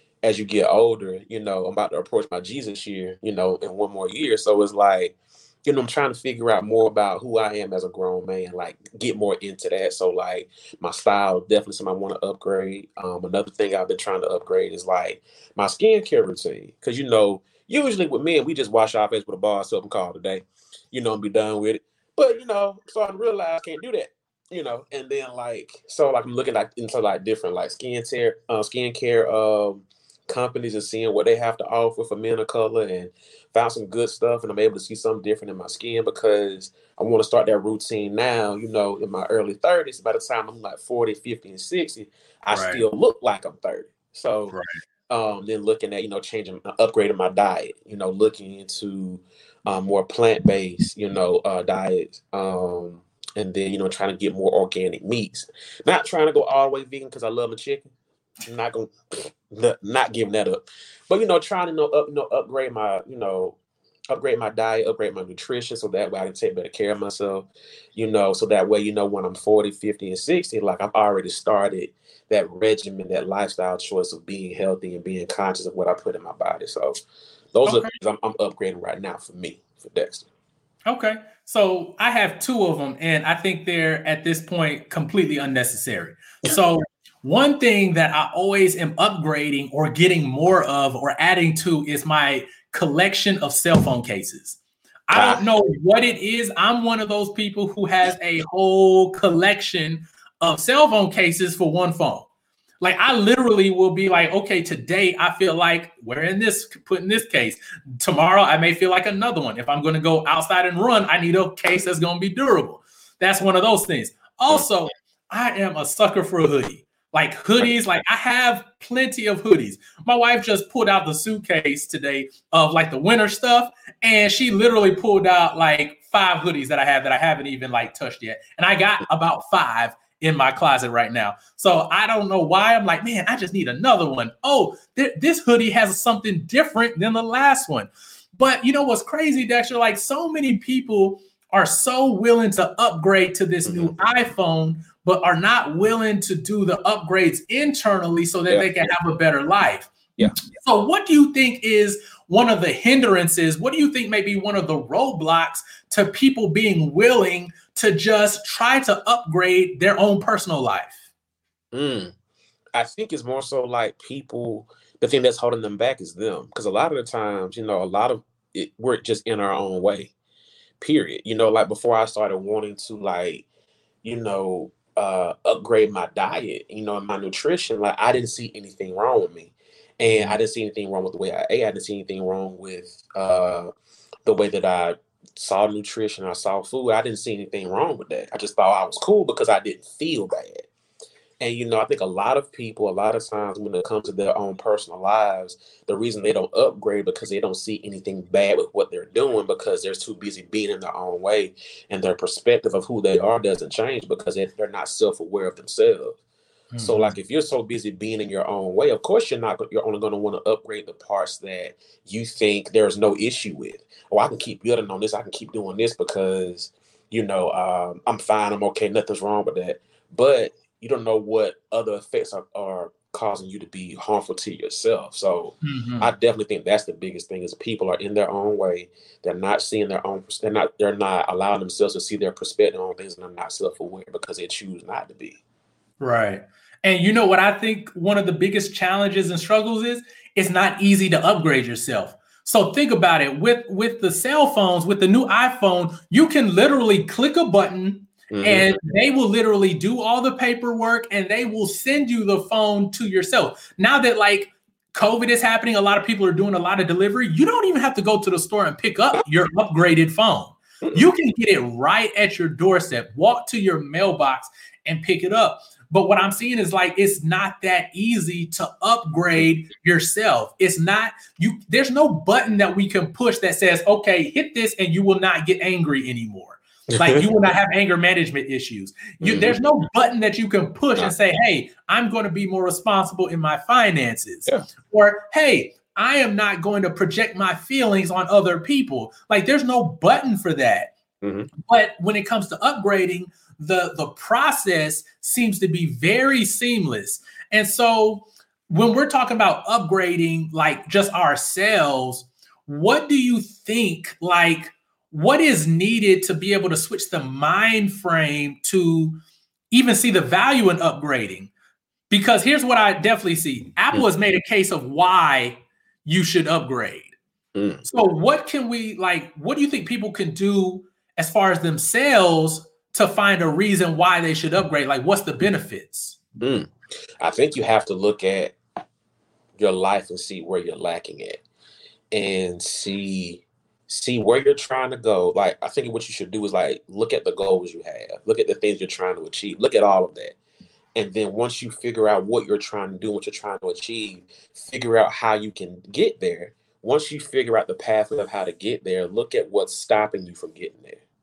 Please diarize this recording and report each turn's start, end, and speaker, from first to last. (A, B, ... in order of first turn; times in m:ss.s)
0:00.2-0:44.5 A
0:42.5-0:42.8 B
0:45.1-0:57.9 A
0:58.4-1:03.6 A
1:04.1-1:17.0 A
1:17.5-1:20.3 A
1:17.6-1:18.0 B
1:20.9-1:42.3 B
1:35.1-1:35.4 A
1:42.8-2:29.9 B
2:23.7-2:24.0 A
2:30.5-2:41.0 B
2:41.7-2:42.1 A
2:42.8-2:50.1 A
2:50.8-2:53.4 A
2:54.0-3:03.7 A
3:00.1-3:00.4 B
3:04.2-3:10.7 A
3:11.4-3:26.2 A
3:26.7-3:27.2 B
3:26.8-3:55.4 A
3:45.6-3:46.1 B
3:56.0-4:50.9 B
4:08.3-4:08.8 A
4:20.8-4:21.1 A
4:36.9-4:37.3 A
4:39.2-4:39.6 A
4:51.2-4:51.5 A
4:51.7-5:09.2 B
5:09.7-5:11.5 B
5:12.1-5:17.2 B
5:17.6-5:17.8 A
5:17.8-5:26.2 B
5:26.4-5:28.6 A
5:29.6-5:31.4 A
5:32.1-5:40.4 A
5:41.0-5:51.0 A